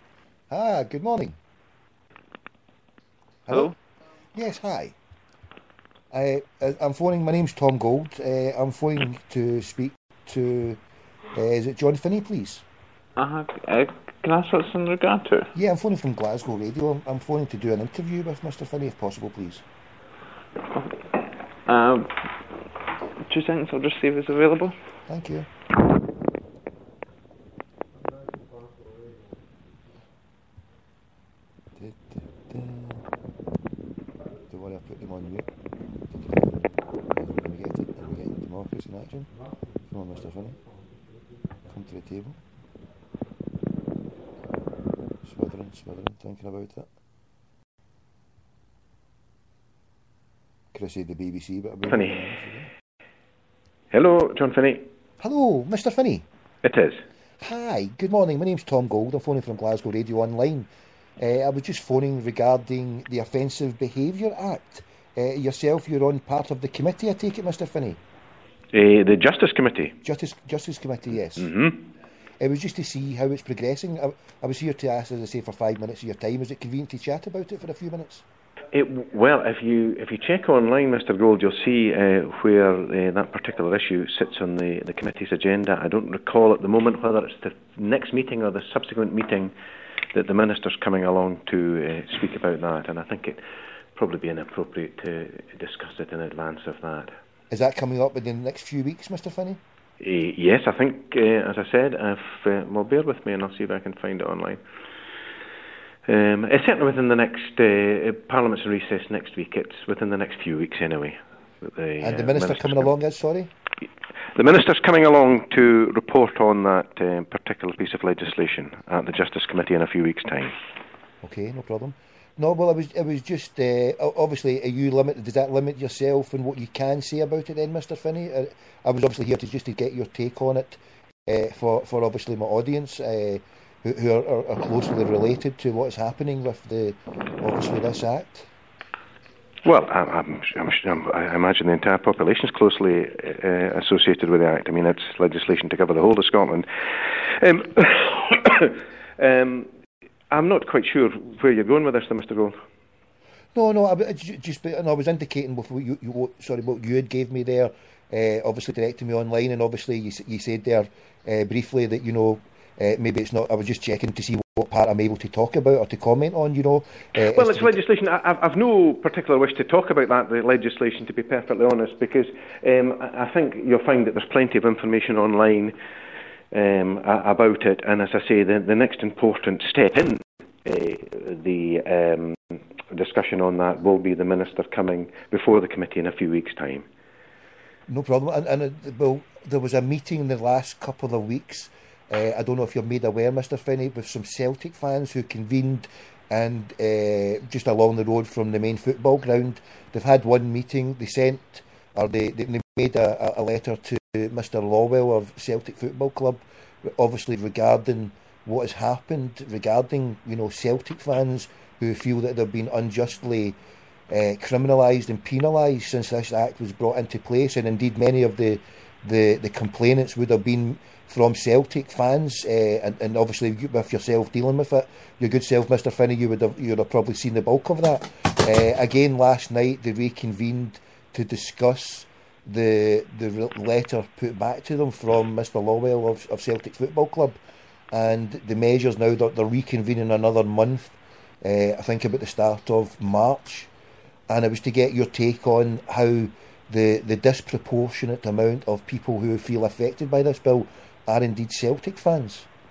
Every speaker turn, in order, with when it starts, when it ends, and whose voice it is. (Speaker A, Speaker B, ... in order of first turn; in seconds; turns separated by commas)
Speaker A: 0.5-1.4, Speaker A: 3.5-3.7, Speaker B: 3.5-3.7, Speaker A: 4.3-5.0, Speaker A: 6.1-10.8, Speaker A: 11.3-12.7, Speaker B: 13.2-15.5, Speaker A: 15.5-19.6, Speaker B: 20.7-21.1, Speaker B: 21.7-22.3, Speaker B: 23.3-24.8, Speaker A: 25.1-25.5, Speaker A: 31.8-33.0, Speaker A: 34.5-35.5, Speaker A: 36.1-39.3, Speaker A: 39.9-40.6, Speaker A: 41.7-42.4, Speaker A: 45.2-46.9, Speaker A: 50.7-52.7, Speaker C: 51.9-52.3, Speaker C: 53.9-54.9, Speaker A: 55.2-56.3, Speaker C: 56.6-57.0, Speaker A: 57.4-68.0, Speaker C: 68.7-70.0, Speaker A: 70.0-71.5, Speaker C: 71.4-71.9, Speaker A: 72.4-78.2, Speaker C: 78.7-89.5, Speaker C: 90.1-93.4, Speaker C: 94.0-97.1, Speaker A: 97.5-99.6, Speaker C: 100.0-104.6, Speaker C: 106.1-112.9, Speaker A: 112.0-113.5, Speaker C: 114.3-120.5, Speaker A: 121.2-138.5, Speaker C: 139.7-146.7, Speaker C: 147.3-149.7, Speaker C: 150.3-152.5, Speaker A: 153.6-167.8, Speaker C: 167.3-175.7, Speaker C: 176.5-186.9, Speaker A: 187.9-213.6, Speaker A: 214.1-237.4, Speaker A: 237.9-243.7, Speaker A: 244.3-252.5